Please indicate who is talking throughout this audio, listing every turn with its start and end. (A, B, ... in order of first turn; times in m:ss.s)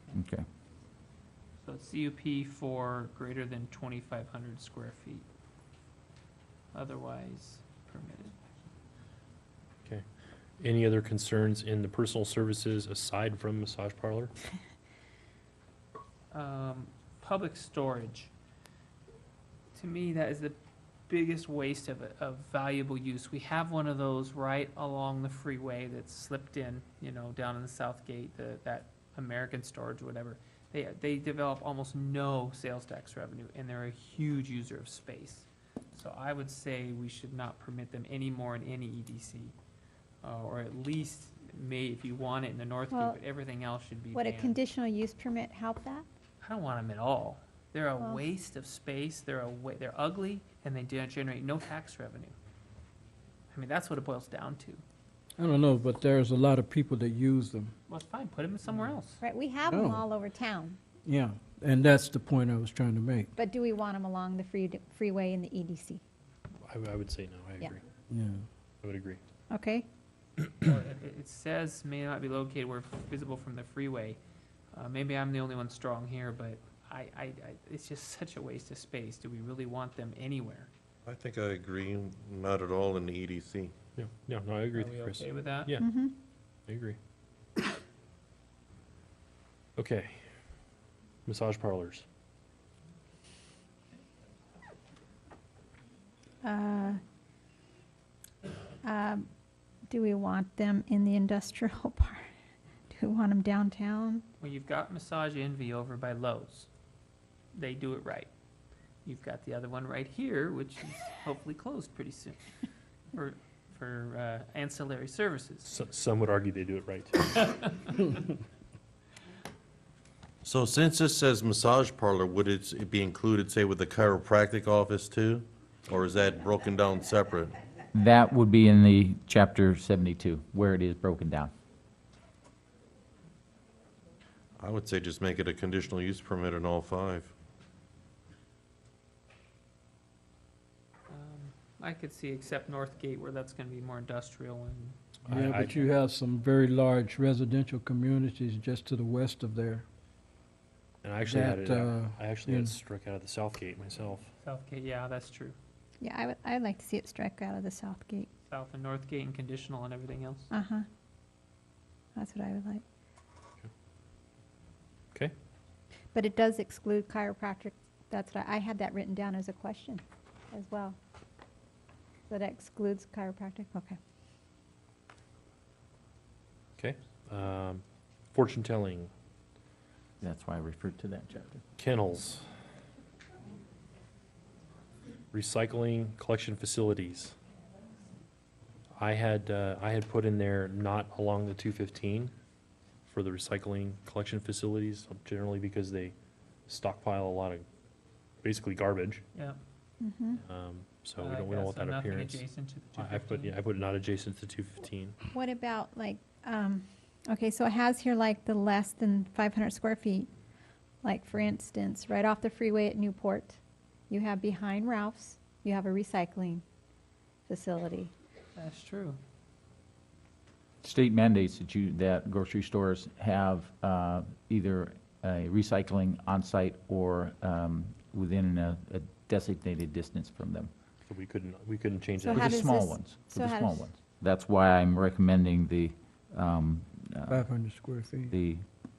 0:00.1-0:00.4 A
0:01.6-0:05.2 B
0:06.7-0:08.3 B
0:10.6-0:14.3 C
0:16.3-0:18.3 B
0:19.7-0:20.6 B
0:21.1-0:39.5 B
0:40.2-0:44.6 B
0:42.9-0:43.2 D
0:44.1-0:46.0 D
0:46.4-0:52.3 B
0:53.5-0:54.8 B
0:55.4-0:57.7 E
0:57.9-0:59.2 B
0:59.2-1:00.8 D
0:59.7-1:00.0 E
1:01.0-1:03.3 E
1:03.4-1:06.0 D
1:06.6-1:07.8 C
1:08.1-1:08.4 E
1:08.8-1:09.2 C
1:09.5-1:09.9 D
1:10.6-1:14.2 B
1:14.7-1:20.7 B
1:21.0-1:23.7 F
1:24.0-1:25.8 C
1:24.7-1:25.8 B
1:25.8-1:26.1 D
1:26.7-1:27.0 C
1:29.8-1:30.3 C
1:31.3-1:32.0 C
1:36.4-1:37.0 D
1:38.8-1:39.3 D
1:39.9-1:42.3 D
1:42.9-1:44.2 D
1:44.4-1:46.7 B
1:47.5-1:48.3 B
1:49.0-1:52.4 B
1:53.1-1:55.7 B
1:55.7-1:57.9 C
1:57.6-1:58.1 B
2:00.4-2:07.6 F
2:07.9-2:11.5 A
2:14.6-2:17.3 F
2:21.1-2:25.0 B
2:25.2-2:25.9 C
2:25.3-2:29.8 E
2:31.0-2:34.3 C
2:31.2-2:32.7 E
2:34.4-2:35.6 B
2:36.0-2:38.3 D
2:38.5-2:40.5 B
2:40.5-2:40.8 D
2:42.1-2:42.8 D
2:46.1-2:51.0 D
2:52.3-2:54.0 D
2:56.8-2:59.1 C
3:00.2-3:01.6 A
3:01.8-3:02.5 C
3:05.3-3:07.4 C
3:09.0-3:12.3 C
3:13.1-3:16.1 C
3:16.7-3:17.6 C
3:18.4-3:19.2 C
3:19.3-3:19.6 B
3:20.0-3:20.4 D
3:20.4-3:25.2 C
3:21.2-3:23.6 B
3:25.3-3:30.3 D
3:31.0-3:33.6 D
3:34.1-3:36.6 D
3:37.5-3:38.1 D
3:38.6-3:39.2 B
3:40.8-3:50.7 A
3:51.0-3:52.7 C
3:52.2-3:53.8 D
3:52.3-3:57.4 A
3:57.3-3:58.3 E
3:58.3-3:58.6 A